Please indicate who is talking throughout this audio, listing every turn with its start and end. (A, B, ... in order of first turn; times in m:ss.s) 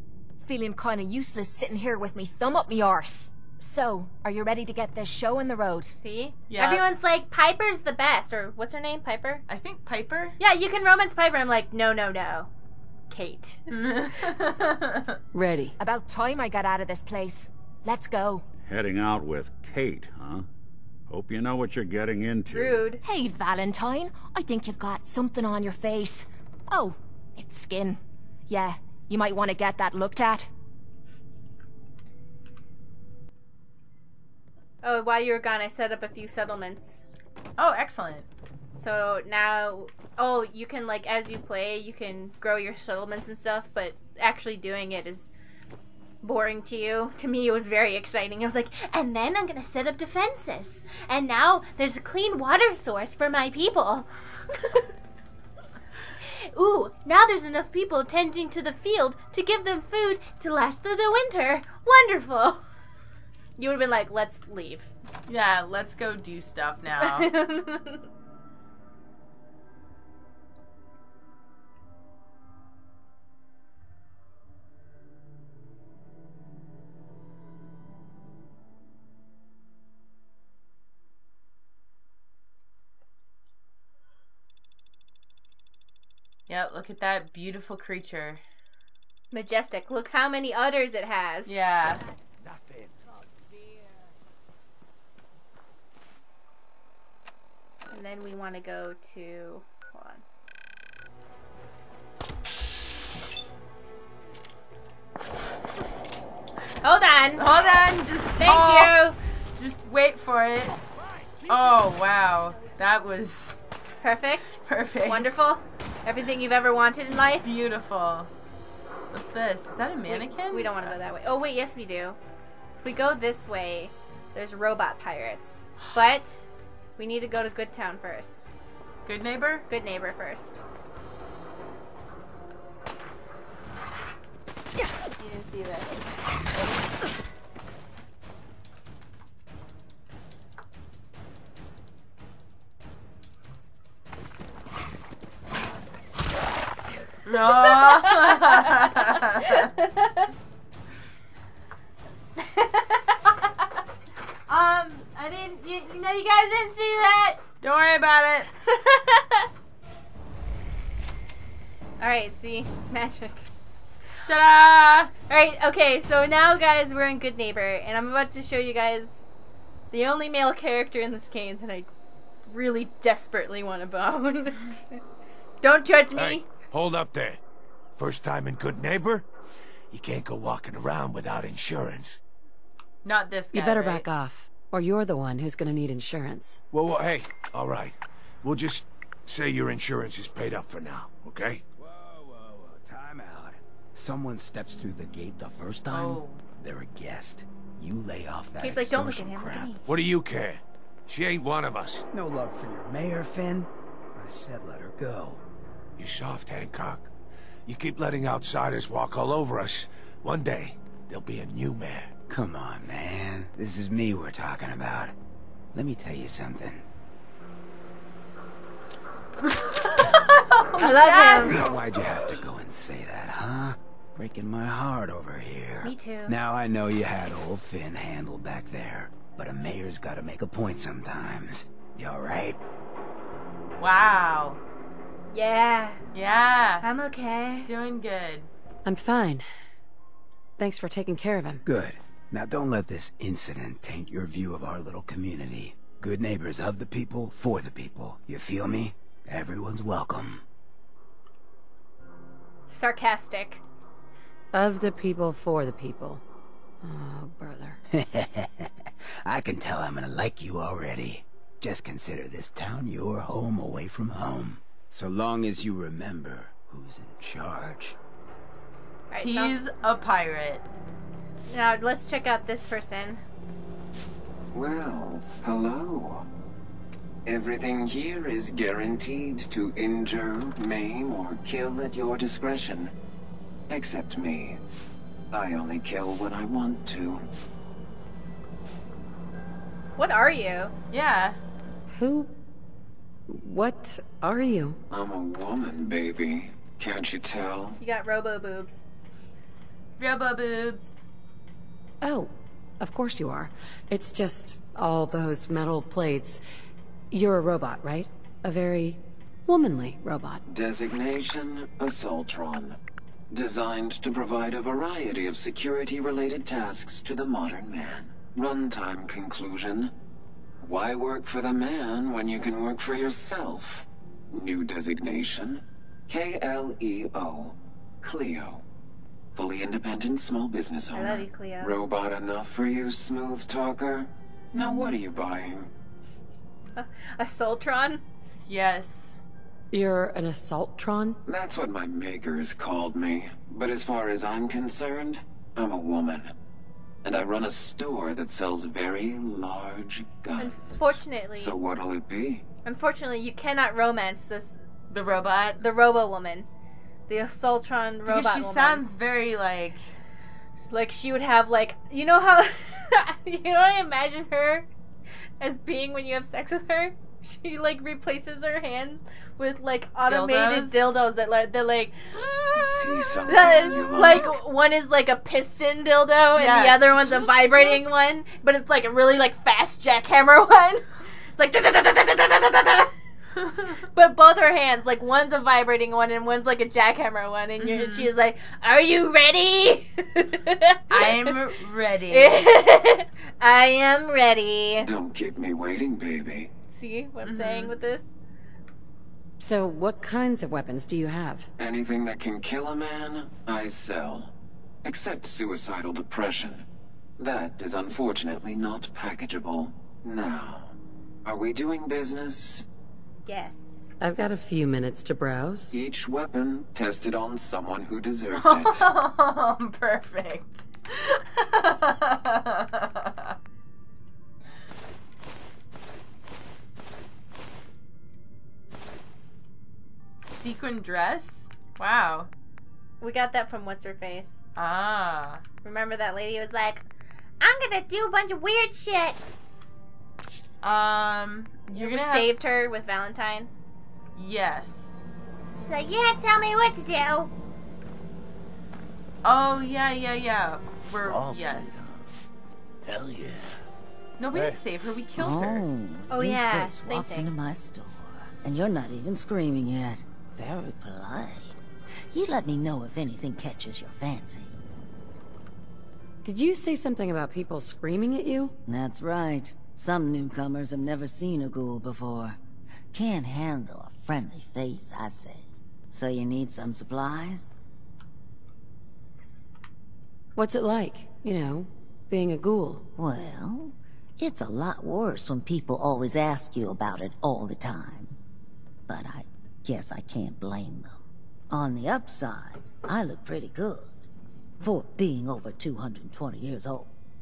0:00.4-0:06.0 A
0:06.0-0:09.4 B
0:06.5-0:06.8 C
0:09.5-0:10.4 C
0:10.4-0:12.5 B
0:13.1-0:13.7 B
0:13.7-0:15.2 C
0:15.3-0:15.7 D
0:15.8-0:18.4 A
0:18.6-0:20.5 E
0:21.1-0:22.9 E
0:22.5-0:23.0 B
0:23.0-0:30.5 A
0:34.8-0:37.0 B
0:37.6-0:38.3 C
0:38.7-0:45.3 B
0:46.2-0:54.8 B
0:56.3-1:02.6 B
1:03.6-1:04.9 B
1:05.3-1:07.3 C
1:07.0-1:08.1 B
1:26.5-1:28.4 C
1:29.3-1:31.6 B
1:31.5-1:32.0 C
1:37.9-1:40.2 B
1:46.8-1:47.5 B
1:47.4-1:49.0 C
1:48.4-1:49.2 B
1:49.6-1:50.8 C
1:51.5-1:53.6 C
1:54.0-1:57.5 B
1:54.6-1:55.4 C
1:57.4-1:58.3 C
1:59.1-2:01.0 C
2:00.1-2:02.2 B
2:02.8-2:08.5 B
2:09.1-2:09.7 C
2:09.7-2:10.6 B
2:15.0-2:16.0 B
2:27.3-2:29.6 C
2:27.5-2:30.3 B
2:32.4-2:33.5 B
2:34.5-2:37.4 B
2:37.6-2:38.5 C
2:38.6-2:39.5 B
2:42.0-2:43.5 B
2:44.3-2:45.1 C
2:45.3-2:49.3 B
2:49.9-2:51.9 B
2:52.5-2:55.0 B
2:55.6-2:56.5 B
2:56.1-2:57.4 F
2:58.0-2:59.3 F
2:59.9-3:02.2 F
3:03.0-3:04.1 C
3:03.5-3:06.6 D
3:06.7-3:11.6 F
3:11.8-3:19.8 G
3:15.9-3:16.4 C
3:18.6-3:19.8 B
3:19.8-3:22.0 F
3:22.1-3:25.4 G
3:26.0-3:27.1 F
3:27.7-3:32.1 F
3:32.3-3:35.2 G
3:35.7-3:36.8 G
3:39.6-3:41.6 C
3:40.8-3:41.6 B
3:41.4-3:52.6 G
3:45.8-3:46.4 B
3:53.8-3:54.6 C
3:55.3-3:56.0 B
3:56.1-3:56.9 C
3:56.8-3:57.7 B
3:57.6-3:58.5 C
3:58.9-3:59.4 D
4:00.6-4:01.6 D
4:01.6-4:10.4 G
4:12.7-4:13.6 B
4:14.5-4:16.2 D
4:16.8-4:17.8 D
4:17.9-4:28.0 G
4:29.1-4:29.6 B
4:29.2-4:30.6 C
4:31.5-4:33.2 B
4:34.5-4:36.3 H
4:37.3-4:42.9 H
4:43.7-4:44.6 H
4:45.3-4:47.2 H
4:50.0-4:50.7 B
4:50.9-4:51.4 C
4:51.9-4:52.3 D
4:53.3-4:54.8 D
4:54.9-4:57.8 H
4:57.8-4:58.8 B
5:00.0-5:01.0 C
5:02.0-5:06.4 D
5:07.1-5:10.4 D
5:10.5-5:12.8 H
5:13.3-5:19.9 H
5:20.6-5:28.6 H
5:29.4-5:35.7 H
5:30.9-5:31.8 B
5:36.8-5:38.0 B
5:38.5-5:39.2 C
5:39.7-5:41.2 D
5:41.3-5:46.3 H
5:47.0-5:52.4 H
5:50.4-5:51.6 B
5:52.6-5:54.6 B
5:54.9-5:55.6 C
5:55.6-5:56.5 B
5:57.1-5:58.9 B
5:58.1-5:59.9 C
6:00.7-6:04.7 B
6:05.4-6:12.0 B
6:10.1-6:10.9 C
6:12.6-6:14.4 H
6:13.3-6:22.9 B
6:16.4-6:17.8 C
6:23.4-6:23.7 C
6:23.9-6:31.4 B
6:27.6-6:28.1 C
6:30.9-6:32.5 C
6:32.1-6:34.9 B
6:34.8-6:36.5 H
6:36.7-6:38.2 B
6:37.2-6:37.7 C
6:39.4-6:41.5 D
6:41.6-6:44.3 H
6:44.8-6:46.6 H
6:47.2-6:50.7 H
6:51.2-6:52.7 H
6:53.3-6:53.9 B
6:54.0-6:55.7 D
6:55.7-6:58.9 H
6:58.4-7:03.4 C
7:10.3-7:12.3 C
7:13.0-7:14.4 B
7:14.6-7:15.4 C
7:15.6-7:16.8 B
7:17.4-7:19.2 B
7:20.6-7:22.3 C
7:21.7-7:23.5 B
7:24.2-7:25.0 C
7:25.6-7:27.3 B
7:29.2-7:31.8 C
7:31.1-7:31.9 F
7:32.8-7:33.6 F
7:34.2-7:35.6 C
7:34.3-7:34.6 F
7:35.2-7:44.6 I
7:36.1-7:37.3 B
7:46.2-7:48.5 D
7:48.7-7:52.4 I
7:52.9-7:57.6 I
8:00.4-8:02.9 D
8:03.0-8:08.2 I
8:08.9-8:11.0 I
8:11.5-8:13.9 I
8:14.6-8:16.9 I